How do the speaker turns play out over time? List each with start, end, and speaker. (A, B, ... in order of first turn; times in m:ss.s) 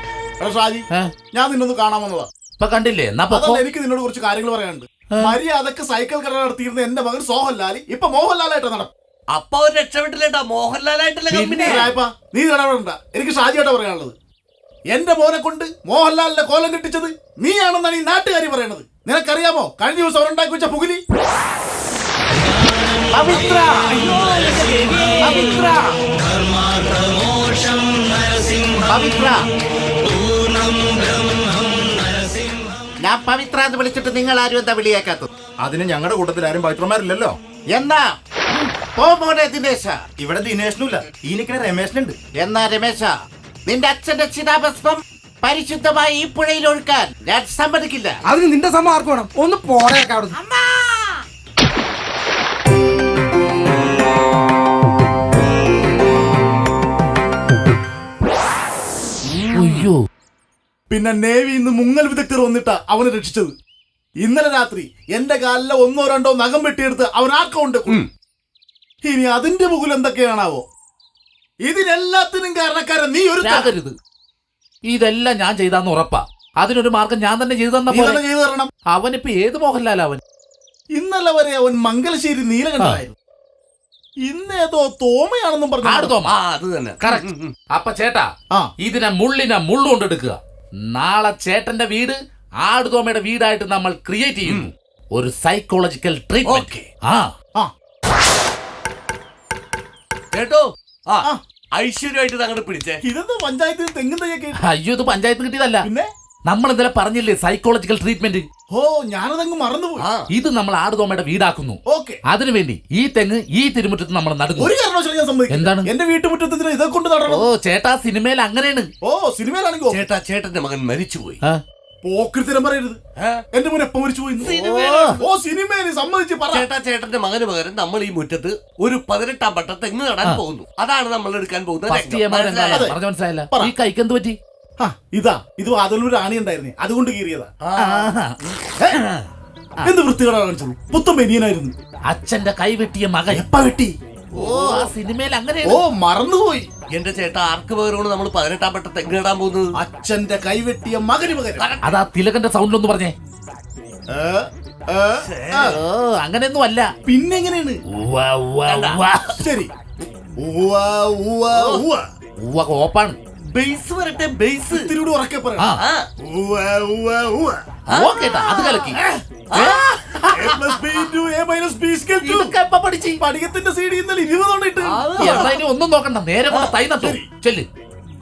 0:00.4-0:02.3 A
0:02.6-0:03.6 B
0:03.3-0:08.9 A
0:09.3-0:11.9 C
0:11.3-0:11.8 B
0:11.6-0:14.1 A
0:14.9-0:21.0 A
0:23.1-0:23.7 D
0:23.5-0:26.0 E
0:28.8-0:29.4 D
0:33.0-0:35.3 D
0:35.6-0:37.4 F
0:37.7-0:38.1 D
0:38.9-0:40.1 D
0:40.2-0:42.2 F
0:42.3-0:43.1 D
0:43.7-0:48.2 D
0:48.2-0:50.4 E
0:50.5-0:50.9 D
0:59.4-0:59.9 C
0:59.5-1:00.0 B
1:00.9-1:03.5 A
1:04.2-1:08.0 A
1:09.0-1:10.6 A
1:11.6-1:13.7 A
1:13.4-1:14.0 B
1:14.9-1:18.2 B
1:17.9-1:18.7 A
1:18.9-1:20.2 B
1:21.0-1:23.2 A
1:24.2-1:26.2 A
1:25.8-1:26.4 B
1:26.2-1:27.5 C
1:27.0-1:28.3 B
1:28.8-1:30.4 B
1:30.9-1:37.3 B
1:36.5-1:36.9 C
1:40.3-1:41.3 C
1:41.8-1:43.0 C
1:43.0-1:44.6 A
1:44.6-1:45.9 B
1:45.8-1:46.1 A
1:46.5-1:48.4 B
1:48.7-1:50.0 A
1:50.0-1:50.2 C
1:50.3-1:54.7 B
1:51.9-1:52.2 A
1:54.6-1:57.5 A
1:55.5-1:55.9 B
1:57.3-1:58.9 B
1:59.0-2:00.1 A
1:59.9-2:01.4 C
2:02.0-2:03.0 A
2:03.5-2:06.7 A
2:04.4-2:05.3 C
2:06.5-2:12.9 C
2:11.9-2:14.4 B
2:12.7-2:13.0 A
2:14.8-2:18.1 A
2:17.6-2:18.1 C
2:17.9-2:18.4 B
2:18.9-2:19.3 C
2:19.8-2:21.8 A
2:22.1-2:23.5 B
2:23.3-2:24.8 A
2:24.4-2:24.8 C
2:24.4-2:25.8 B
2:25.6-2:26.7 A
2:26.9-2:29.7 C
2:29.8-2:31.7 A
2:31.6-2:32.0 C
2:31.8-2:33.1 B
2:34.1-2:35.8 A
2:35.2-2:35.8 C
2:35.7-2:36.9 B
2:37.1-2:37.8 A
2:37.9-2:39.4 B
2:38.7-2:39.2 C
2:39.4-2:39.7 A
2:40.4-2:42.0 A
2:41.5-2:41.8 C
2:42.4-2:43.2 B
2:43.6-2:44.9 C
2:44.7-2:45.7 A
2:45.8-2:46.1 C
2:46.2-2:47.6 A
2:47.9-2:48.8 C
2:47.9-2:49.0 B
2:49.5-2:49.8 C
2:49.5-2:50.8 B
2:50.3-2:52.5 A
2:52.2-2:53.2 B
2:53.2-2:55.5 A
2:54.8-2:55.6 C
2:55.2-2:57.7 B
2:56.5-2:56.8 C
2:57.0-2:57.2 A